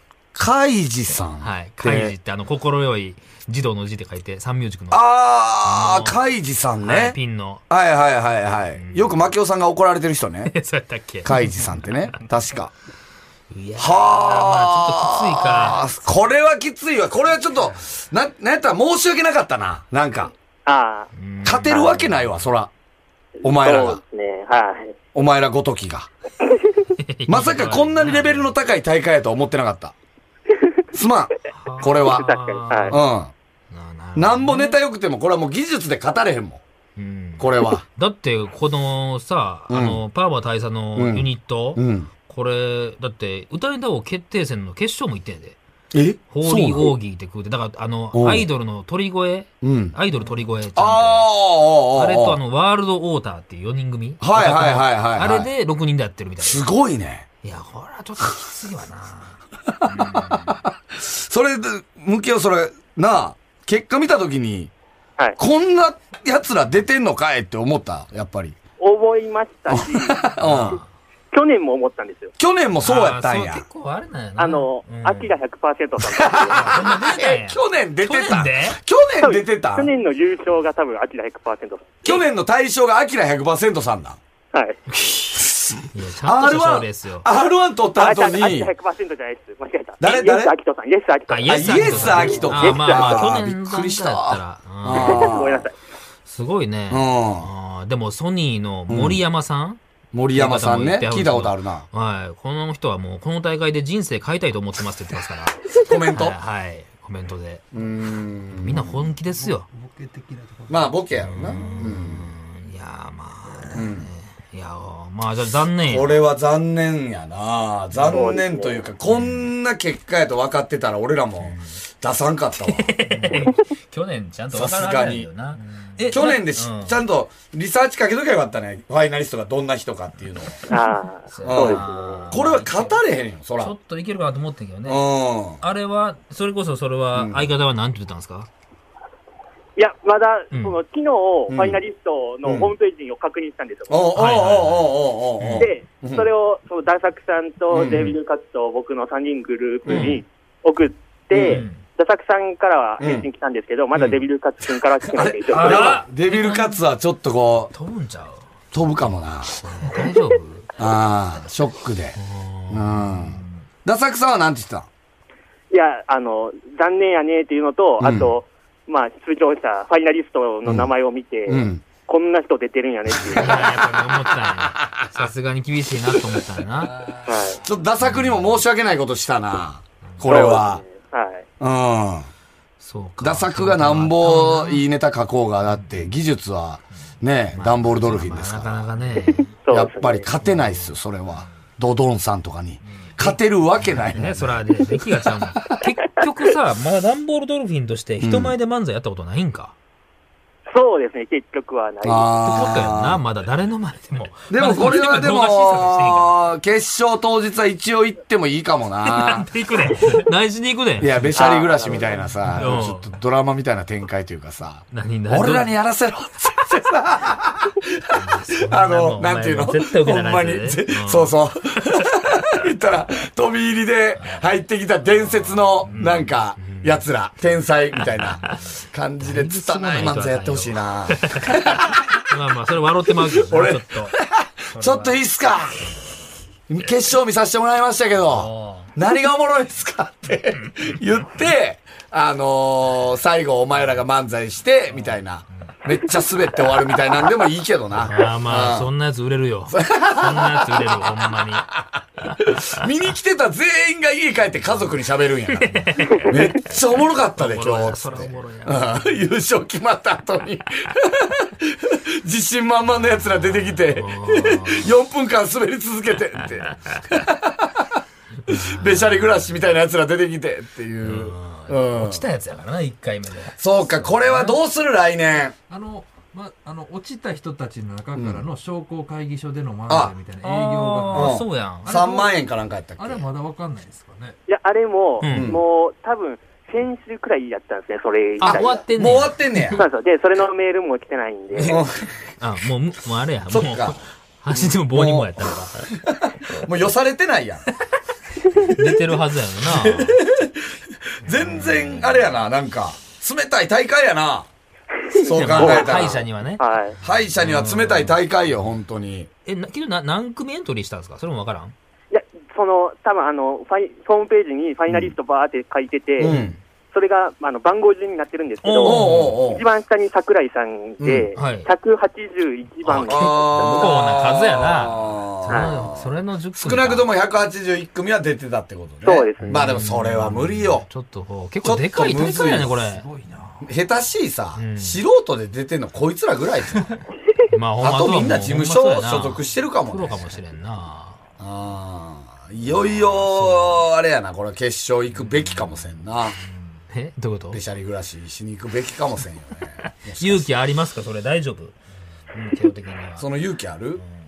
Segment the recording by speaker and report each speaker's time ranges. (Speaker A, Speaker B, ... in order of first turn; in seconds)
Speaker A: 0.3-2.1, 4.9-7.2, 7.7-10.5, 11.2-12.7, 13.8-20.3, 21.4-22.7, 23.4-24.0, 25.1-26.1, 27.3-29.9, 30.9-32.3, 32.9-33.3, 34.1-36.6, 37.4-37.8, 39.7-40.0, 41.0-42.1, 45.9-46.9, 48.1-48.5, 49.6-50.0, 50.8-52.4, 54.2-55.5, 56.4-57.3, 59.7-64.7, 65.4-68.6, 69.7-70.8, 72.4-73.6, 76.1-79.9, 82.0-84.2, 84.9-88.7, 90.0-90.5, 91.5-95.7, 96.9-97.5, 98.9-99.2, 100.1-101.8, 105.8-106.4, 107.7-109.0, 110.7-112.3, 113.7-114.1, 115.8-123.5, 124.5-125.3, 126.1-130.6, 131.4-133.7, 134.8-135.6, 137.1-137.5, 141.5-141.8, 142.4-142.7, 143.9-146.3, 147.7-148.2, 149.8-150.2, 151.3-151.7, 153.0-153.3, 155.0-157.7, 158.7-160.0, 160.8-162.2, 162.7-164.9, 168.0-168.3, 170.6-170.9, 171.5-171.8, 173.1-175.1, 176.1-176.5, 177.5-180.8, 181.6-182.3, 183.2-188.9, 189.7-195.0, 198.2-198.5, 202.0-203.2, 204.5-210.1, 211.0-232.2, 233.2-235.9, 236.7-248.9, 249.7-267.9, 268.5-272.2, 273.6-275.6, 278.1-278.4, 279.9-280.1, 281.1-283.2, 285.3-285.6, 288.4-289.8, 291.6-292.1, 293.5-294.0, 294.5-297.7, 299.6-304.5, 305.1-306.2, 307.0-309.3, 316.2-316.6, 318.8-319.6, 321.0-321.3, 323.1-330.9, 331.6-332.7, 333.6-337.0, 337.8-340.4, 341.4-346.4, 347.5-350.5, 353.2-354.0
Speaker B: 1.4-5.0, 5.6-6.2, 6.8-7.6, 8.8-9.2, 10.5-11.7, 13.5-16.1, 21.1-22.5, 27.0-28.5, 31.5-33.0, 33.7-34.8, 37.0-45.6, 46.3-51.3, 51.9-56.7, 57.4-60.6, 70.4-70.8, 72.8-75.3, 76.5-78.8, 85.9-87.3, 91.3-95.3, 96.2-99.8, 100.3-107.7, 108.5-109.7, 111.2-116.2, 119.1-119.5, 121.4-121.7, 122.7-127.0, 131.3-133.0, 133.6-135.1, 135.6-138.5, 140.5-140.8, 144.2-145.7, 149.9-150.2, 151.5-151.8, 155.5-156.8, 157.7-158.5, 159.6-160.7, 162.2-163.5, 173.3-177.1, 178.0-178.6, 182.8-184.8, 187.5-189.5, 190.4-190.9, 193.2-199.7, 202.4-206.4, 209.0-211.4, 212.5-213.1, 214.9-215.7, 218.1-221.3, 225.3-227.0, 228.0-228.6, 229.2-234.2, 234.7-235.2, 238.3-238.9, 248.0-251.7, 252.2-252.6, 255.5-256.7, 257.4-259.0, 263.8-264.9, 268.5-269.4, 271.0-274.5, 280.4-281.9, 285.2-285.6, 288.4-289.6, 292.4-295.9, 298.6-300.2, 301.6-302.1, 305.2-306.6, 307.4-308.2, 309.4-311.7, 316.2-316.5, 318.6-319.4, 321.4-321.7, 322.8-327.1, 329.4-333.1, 334.6-335.0, 337.5-341.2, 343.0-343.8, 346.9-347.6, 350.2-351.8, 352.3-353.3
Speaker C: 20.6-21.1, 23.4-24.9, 32.0-32.9, 68.8-70.2, 71.3-72.3, 74.4-76.7, 79.2-81.9, 84.5-84.8, 88.0-93.2, 94.9-95.7, 118.1-118.8, 130.7-132.2, 139.8-144.1, 145.6-156.0, 165.7-173.6, 177.3-177.6, 180.2-181.4, 189.4-190.3, 200.7-202.5, 211.3-212.2, 284.5-288.8, 289.8-291.8, 305.2-306.9, 312.1-316.3, 316.9-323.9, 329.0-329.6
Speaker D: 108.9-112.0, 113.5-113.8, 176.9-177.2, 275.7-282.4, 283.0-284.4, 332.4-333.7